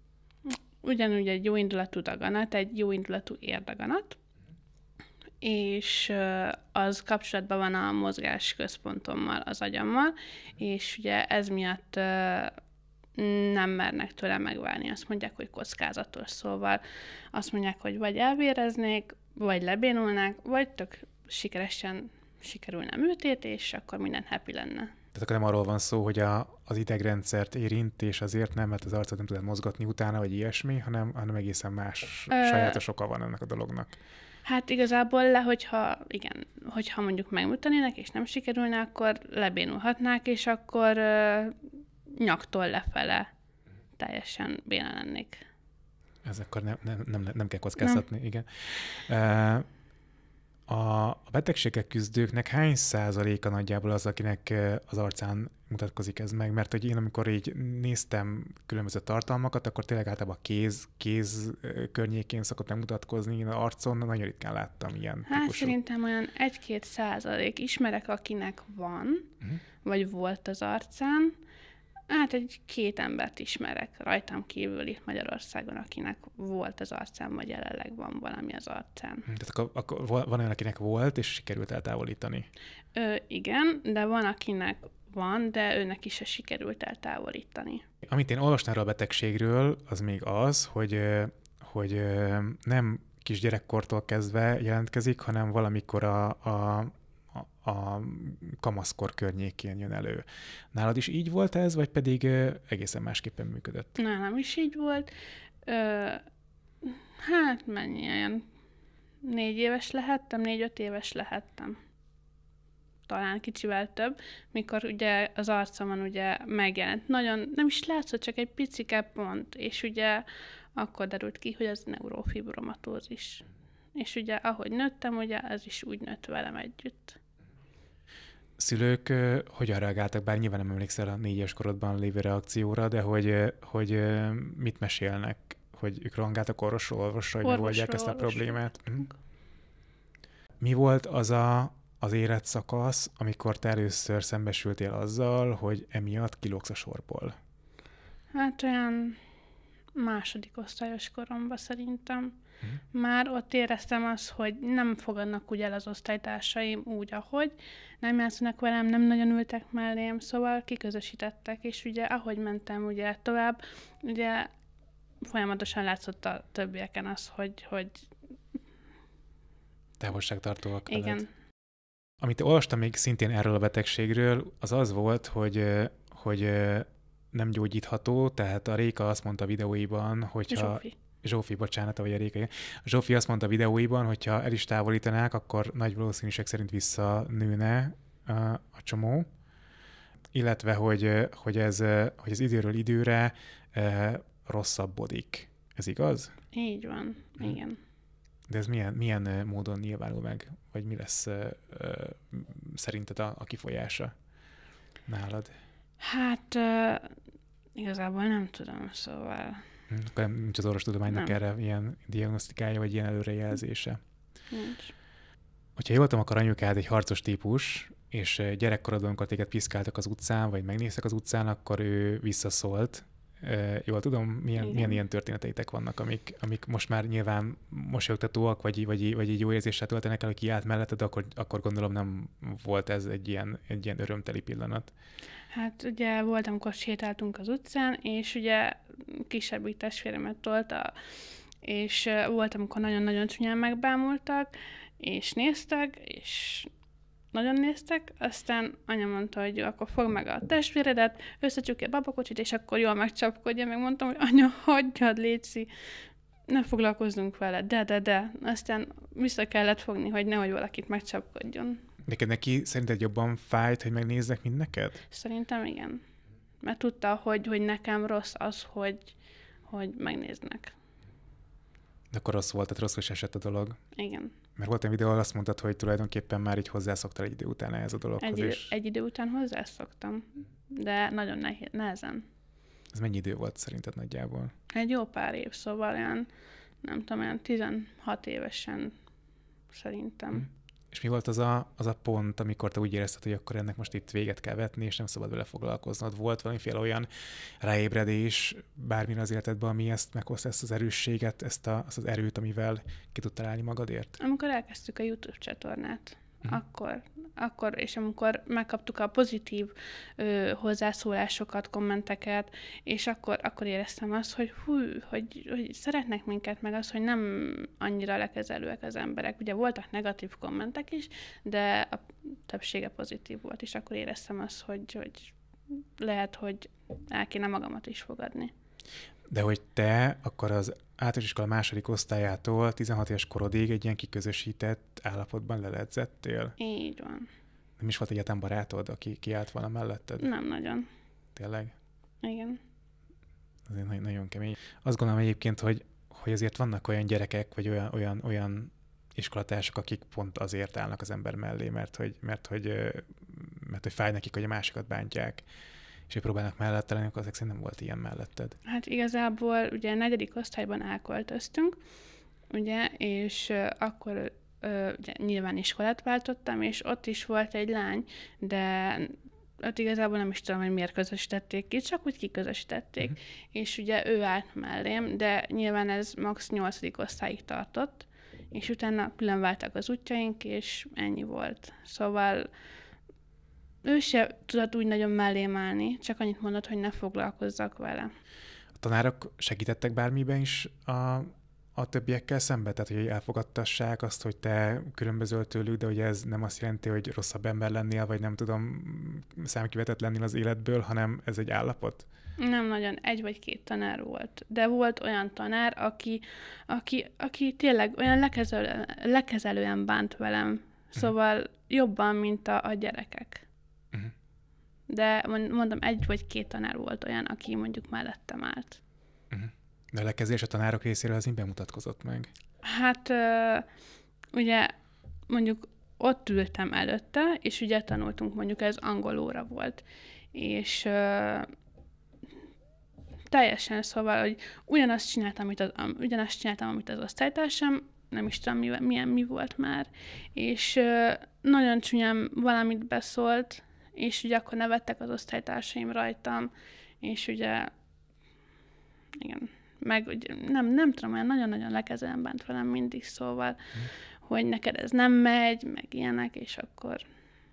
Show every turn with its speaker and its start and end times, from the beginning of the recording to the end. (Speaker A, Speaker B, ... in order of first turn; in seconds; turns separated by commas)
Speaker A: 0.5-4.2, Speaker A: 5.4-12.6, Speaker A: 13.2-24.9, Speaker B: 25.1-34.0, Speaker A: 32.3-32.8, Speaker A: 34.5-41.6, Speaker A: 42.2-43.3, Speaker A: 44.0-45.4, Speaker B: 46.2-49.7, Speaker B: 50.7-65.7, Speaker A: 65.3-69.3, Speaker A: 69.8-71.4, Speaker A: 72.1-79.3, Speaker B: 79.3-82.5, Speaker A: 83.0-87.8, Speaker B: 88.0-104.0, Speaker A: 104.0-105.1, Speaker A: 105.7-106.2, Speaker A: 106.8-108.4, Speaker A: 109.2-111.8, Speaker A: 113.1-127.2, Speaker B: 128.6-139.1, Speaker A: 137.4-139.1, Speaker B: 140.6-147.4, Speaker A: 148.3-149.2, Speaker A: 149.9-152.4, Speaker A: 152.9-164.5, Speaker A: 165.2-168.1, Speaker B: 170.0-171.2, Speaker A: 170.9-171.3, Speaker B: 172.2-189.3, Speaker A: 180.5-180.9, Speaker B: 190.3-196.3, Speaker A: 196.5-197.8, Speaker B: 198.5-204.2, Speaker B: 205.1-205.6, Speaker A: 206.0-207.2, Speaker A: 207.8-209.7, Speaker B: 209.9-214.0, Speaker A: 211.1-211.3, Speaker A: 214.5-214.9, Speaker B: 215.8-234.9, Speaker A: 224.6-225.0, Speaker A: 235.5-241.0, Speaker A: 241.6-246.7, Speaker A: 247.3-255.7, Speaker A: 256.5-261.8, Speaker B: 262.1-265.0, Speaker A: 265.1-266.0, Speaker A: 266.6-269.1, Speaker A: 269.7-270.8, Speaker B: 272.1-273.8, Speaker A: 273.9-274.4, Speaker B: 274.6-278.7, Speaker A: 278.2-282.3, Speaker B: 282.9-284.5, Speaker A: 284.7-286.3, Speaker A: 286.8-288.9, Speaker A: 289.7-290.5, Speaker B: 290.4-297.1, Speaker B: 297.6-304.2, Speaker A: 304.2-328.5, Speaker B: 329.3-336.6, Speaker A: 336.6-337.3, Speaker B: 337.8-340.3, Speaker A: 340.2-340.9, Speaker B: 341.4-341.8, Speaker A: 342.2-342.6, Speaker B: 343.7-355.4, Speaker B: 356.1-358.6, Speaker A: 358.6-361.8, Speaker A: 362.5-382.5, Speaker A: 383.8-388.1, Speaker B: 388.8-402.1, Speaker A: 402.4-413.4, Speaker A: 414.9-418.8, Speaker B: 419.3-422.3, Speaker A: 422.6-423.7, Speaker A: 424.3-424.7, Speaker A: 425.3-431.5, Speaker A: 433.3-447.7, Speaker A: 449.1-453.6, Speaker A: 454.2-457.0